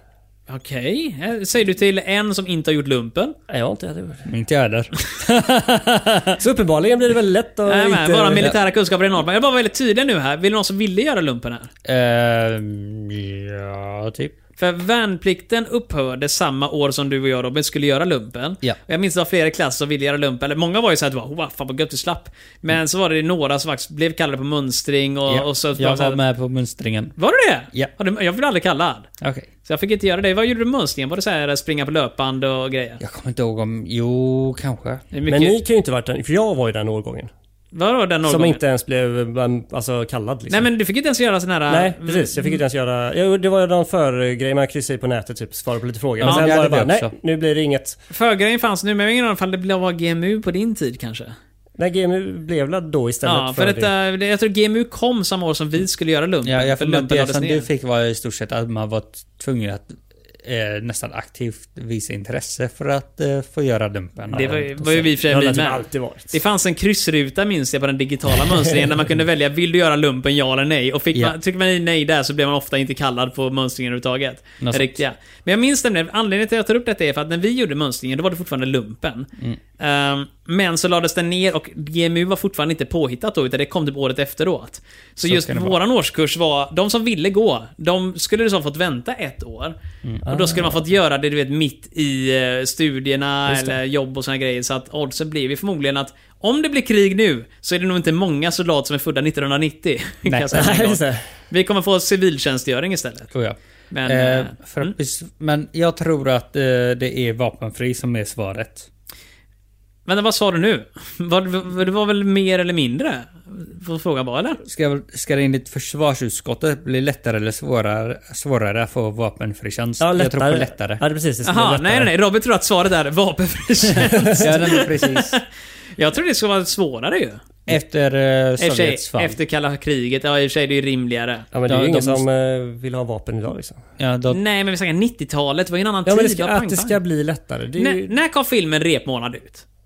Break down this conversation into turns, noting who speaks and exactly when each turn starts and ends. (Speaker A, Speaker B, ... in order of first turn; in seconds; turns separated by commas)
Speaker A: 0.5-3.4, Speaker B: 3.5-4.3, Speaker C: 4.3-6.4, Speaker B: 6.4-8.5, Speaker A: 7.7-11.7, Speaker C: 11.8-14.3, Speaker A: 14.6-26.2, Speaker C: 25.3-27.1, Speaker A: 27.2-29.1, Speaker C: 29.2-29.5, Speaker A: 29.6-33.0, Speaker C: 33.0-35.0, Speaker A: 35.1-35.5, Speaker B: 35.3-37.3, Speaker A: 37.7-38.6, Speaker B: 38.3-40.7, Speaker A: 40.5-42.6, Speaker B: 41.7-48.0, Speaker C: 46.2-47.1, Speaker A: 48.1-51.3, Speaker B: 51.8-53.9, Speaker A: 53.2-57.6, Speaker C: 56.4-64.8, Speaker B: 64.3-66.3, Speaker A: 64.3-103.3, Speaker C: 74.6-75.0, Speaker C: 85.2-85.8, Speaker B: 90.2-90.8, Speaker B: 93.5-93.8, Speaker C: 100.2-100.8, Speaker B: 100.5-101.2, Speaker C: 103.3-108.9, Speaker A: 103.9-104.9, Speaker A: 110.0-114.6, Speaker C: 114.6-121.0, Speaker B: 120.0-122.1, Speaker A: 121.4-125.4, Speaker B: 124.1-124.4, Speaker C: 124.3-125.4, Speaker A: 126.0-127.4, Speaker C: 127.7-129.4, Speaker A: 128.6-131.4, Speaker B: 131.5-133.8, Speaker C: 131.7-132.2, Speaker C: 134.0-134.4, Speaker A: 134.3-137.0, Speaker B: 136.1-138.1, Speaker A: 137.8-139.6